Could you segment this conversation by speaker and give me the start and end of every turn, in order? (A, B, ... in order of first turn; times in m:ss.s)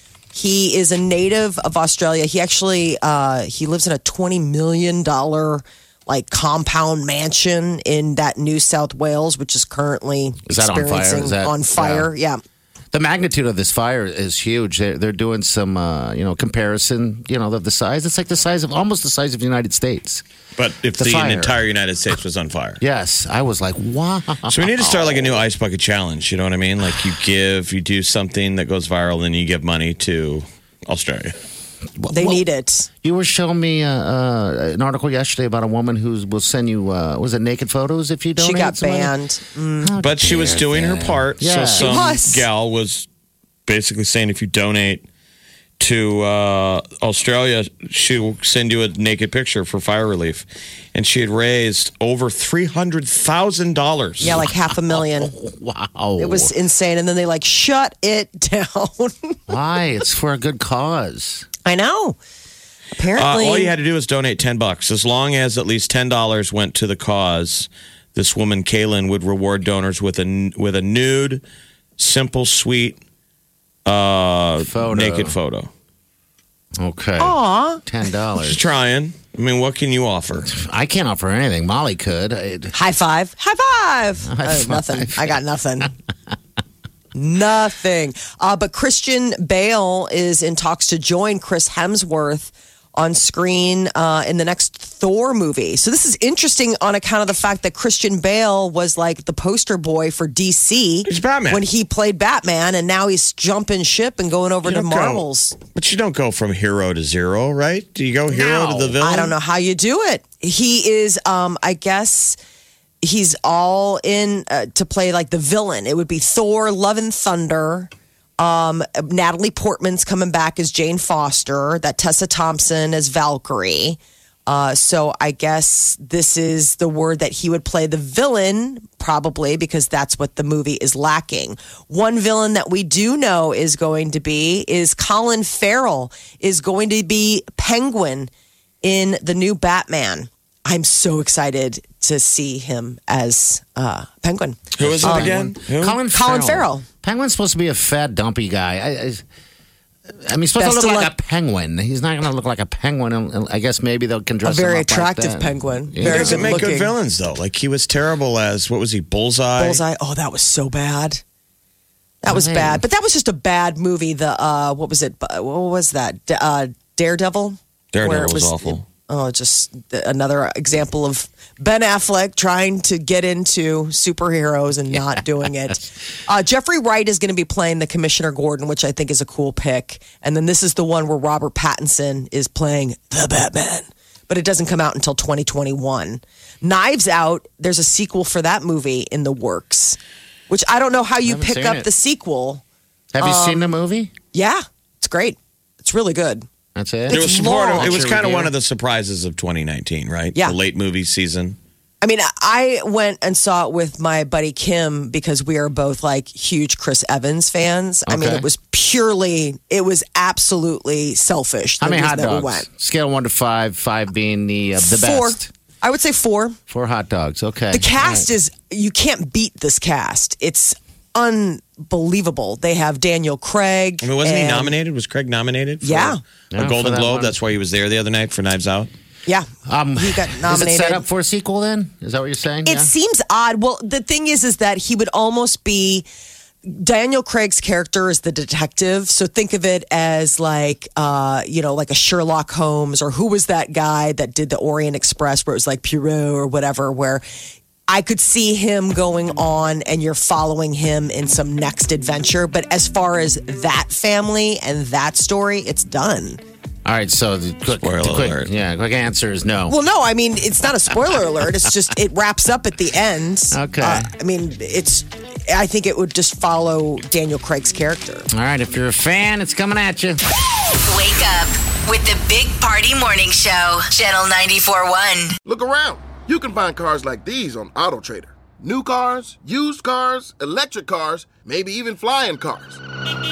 0:00.3-0:12.4 A
0:10.4-0:12.1 B
0:12.9-0:20.2 B
0:20.6-0:22.8 C
0:21.0-0:21.6 B
0:22.8-0:25.4 B
0:24.4-0:31.3 C
0:32.0-0:32.4 B
0:32.1-0:32.9 A
0:33.0-0:39.2 B
0:38.4-0:39.9 A
0:39.8-0:42.0 B
0:40.0-0:43.1 C
0:41.8-0:42.5 A
0:43.6-0:45.0 C
0:45.8-0:54.4 C
0:54.2-0:55.3 A
0:54.2-0:56.5 B
0:56.2-0:59.4 A
0:59.5-1:01.4 B
1:01.6-1:02.2 A
1:02.9-1:03.7 A
1:03.2-1:11.4 C
1:12.0-1:13.0 C
1:13.8-1:15.7 C
1:14.6-1:15.4 B
1:16.8-1:18.6 B
1:17.2-1:17.8 A
1:18.4-1:20.5 C
1:20.5-1:22.7 B
1:22.7-1:25.9 A
1:24.2-1:25.3 B
1:27.1-1:45.6 A
1:41.0-1:41.6 C
1:44.6-1:45.2 B
1:44.7-1:44.9 C
1:45.7-1:49.3 C
1:48.3-1:49.0 B
1:49.0-1:52.4 A
1:53.0-2:18.3 A
2:18.8-2:25.5 A
2:24.8-2:26.0 C
2:24.8-2:29.2 B
2:26.1-2:26.8 A
2:30.2-2:36.6 B
2:30.6-2:31.1 A
2:34.4-2:36.9 A
2:36.0-2:39.8 C
2:39.6-2:41.2 A
2:42.2-3:10.0 A
2:42.2-2:42.8 B
2:47.9-2:48.8 C
3:10.5-3:12.6 A
3:11.2-3:11.9 B
3:13.1-3:14.1 B
3:13.2-3:13.7 A
3:14.3-3:16.4 A
3:16.7-3:18.5 B
3:17.1-3:18.2 A
3:17.1-3:21.6 C
3:22.0-3:32.7 A
3:28.1-3:28.4 B
3:31.8-3:35.5 B
3:34.8-3:36.6 A
3:36.7-3:38.3 B
3:37.7-3:44.8 A
3:44.0-3:48.9 C
3:45.8-3:46.2 A
3:46.5-3:47.3 B
3:49.2-3:51.0 A
3:49.7-3:52.9 B
3:52.6-3:56.1 A
3:56.6-4:07.2 A
4:07.9-4:16.4 A
4:16.8-4:19.8 B
4:17.7-4:18.5 C
4:19.7-4:28.3 A
4:23.5-4:24.1 B
4:28.3-4:30.2 B
4:30.8-4:35.3 D
4:35.5-4:42.8 E